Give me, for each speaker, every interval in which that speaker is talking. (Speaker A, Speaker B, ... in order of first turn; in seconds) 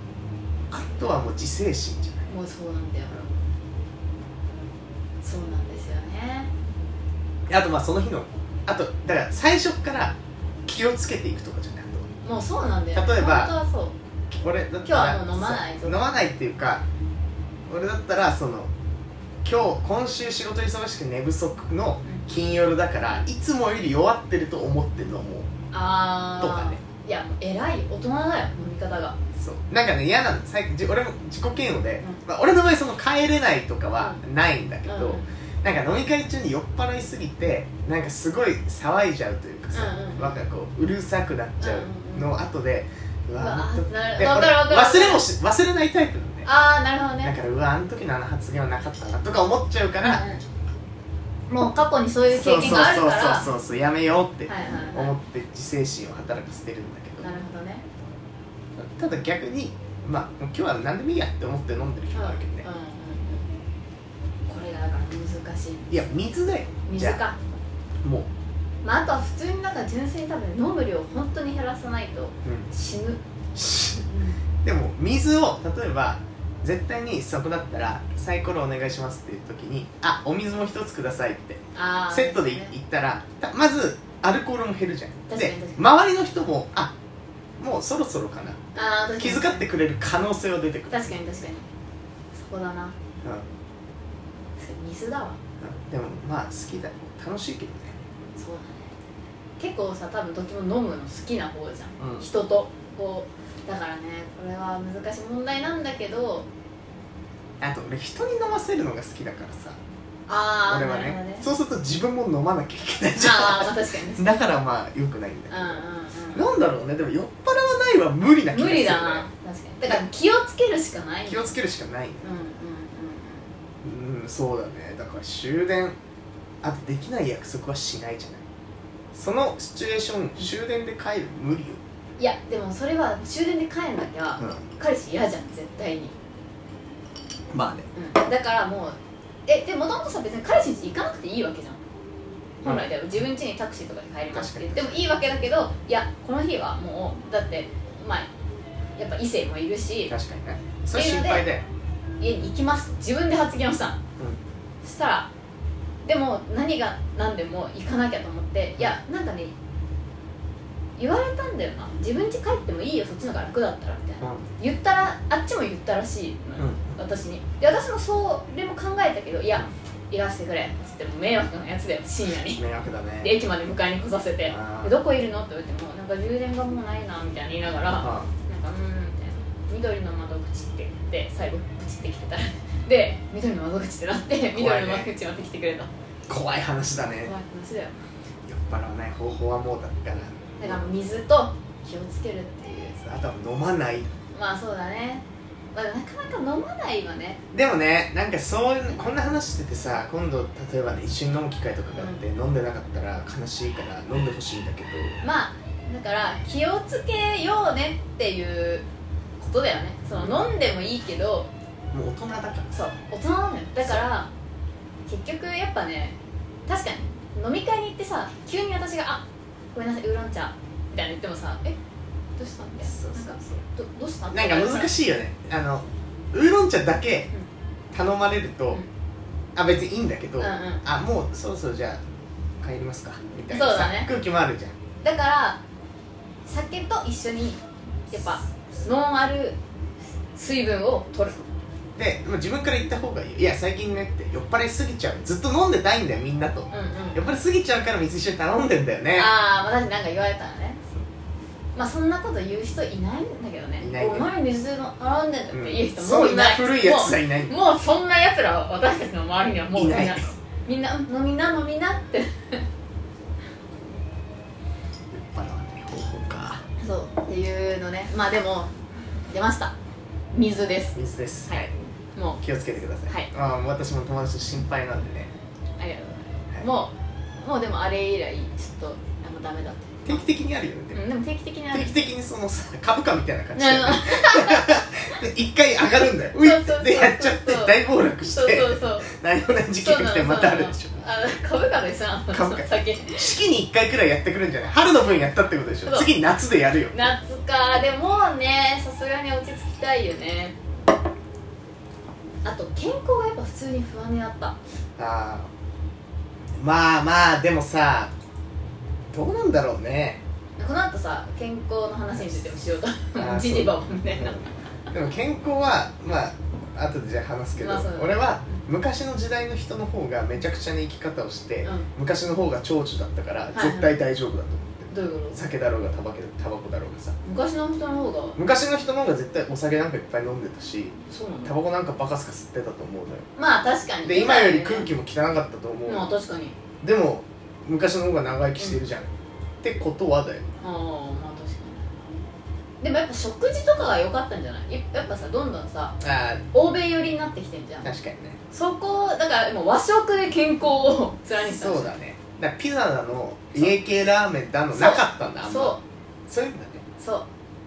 Speaker A: 0.7-2.3, 7.5-12.1, 12.9-13.5, 14.3-16.9, 17.7-18.7, 19.4-25.5, 26.4-26.8, 29.4-46.5, 47.2-50.2, 52.3-57.3, 58.8-62.7, 65.9-67.2, 68.0-68.3, 72.4-72.7, 73.5-74.1, 74.6-86.9, 87.6-88.6, 89.2-91.2, 95.6-98.0, 102.0-102.3, 107.6-109.8, 110.7-115.8, 116.3-119.3, 121.3-122.2, 123.8-126.0, 126.6-128.4, 129.1-131.8, 134.4-134.7, 137.5-137.9, 142.6-142.9, 144.3-145.0, 150.1-151.6, 164.2-164.5, 166.6-166.8, 172.5-173.3, 174.5-174.9, 178.0-178.3, 184.5-185.1, 186.3-187.3, 188.4-190.8, 193.0-194.1, 197.5-205.2, 210.1-210.5, 211.9-212.7, 222.9-223.6, 224.3-227.3, 227.9-228.8, 229.6-232.0, 232.6-234.8, 242.0-249.3, 253.8-254.3, 255.5-257.5, 259.7-260.4, 265.1-266.6, 270.9-271.7, 272.4-275.3, 280.1-281.0, 281.7-291.0, 292.3-297.1, 305.0-305.5, 306.6-308.1, 309.1-310.2, 313.2-327.2, 328.4-333.3, 334.0-336.1, 336.8-339.1, 339.6-340.5, 346.0-346.4, 347.8-348.4, 351.4-356.8
Speaker B: 2.3-3.3, 5.2-6.5, 12.2-13.9, 14.8-16.0, 25.7-29.1, 34.9-35.3, 39.7-40.4, 41.6-42.3, 43.4-45.3, 46.5-47.4, 50.0-50.4, 51.5-53.5, 54.5-55.1, 57.2-57.8, 62.1-63.5, 64.5-65.9, 66.9-67.4, 68.8-73.2, 74.0-74.4, 81.8-82.7, 85.3-85.9, 88.8-89.7, 90.9-91.7, 92.3-93.0, 94.6-95.4, 98.4-98.9, 99.6-106.5, 110.3-111.5, 113.2-114.3, 115.5-116.5, 118.5-121.5, 122.2-123.5, 132.2-136.1, 137.9-141.8, 142.6-148.3, 149.0-150.1, 150.9-151.5, 152.2-154.0, 154.8-155.3, 156.1-159.5, 161.0-172.6, 173.2-185.9, 187.2-188.0, 190.6-193.0, 194.3-197.4, 201.9-202.2, 205.2-208.8, 209.4-211.5, 212.7-214.3, 215.1-221.8, 222.4-224.9, 230.4-230.8, 233.5-234.1, 235.0-235.6, 236.5-237.6, 238.1-239.6, 240.3-241.4, 246.7-247.2, 249.2-250.8, 251.8-262.6, 266.8-268.7, 269.3-269.7, 270.3-272.4, 275.8-280.3, 280.9-282.1, 283.6-285.2, 286.3-289.1, 289.8-293.3, 295.9-296.1, 296.9-300.6, 302.4-304.6, 310.6-314.4, 317.6-318.2, 323.5-323.9, 324.9-325.4, 327.2-328.4, 331.1-331.5, 333.4-334.9, 335.9-336.6, 340.6-342.2, 342.8-346.0, 346.5-347.9, 348.5-351.9, 354.7-355.8, 357.0-357.3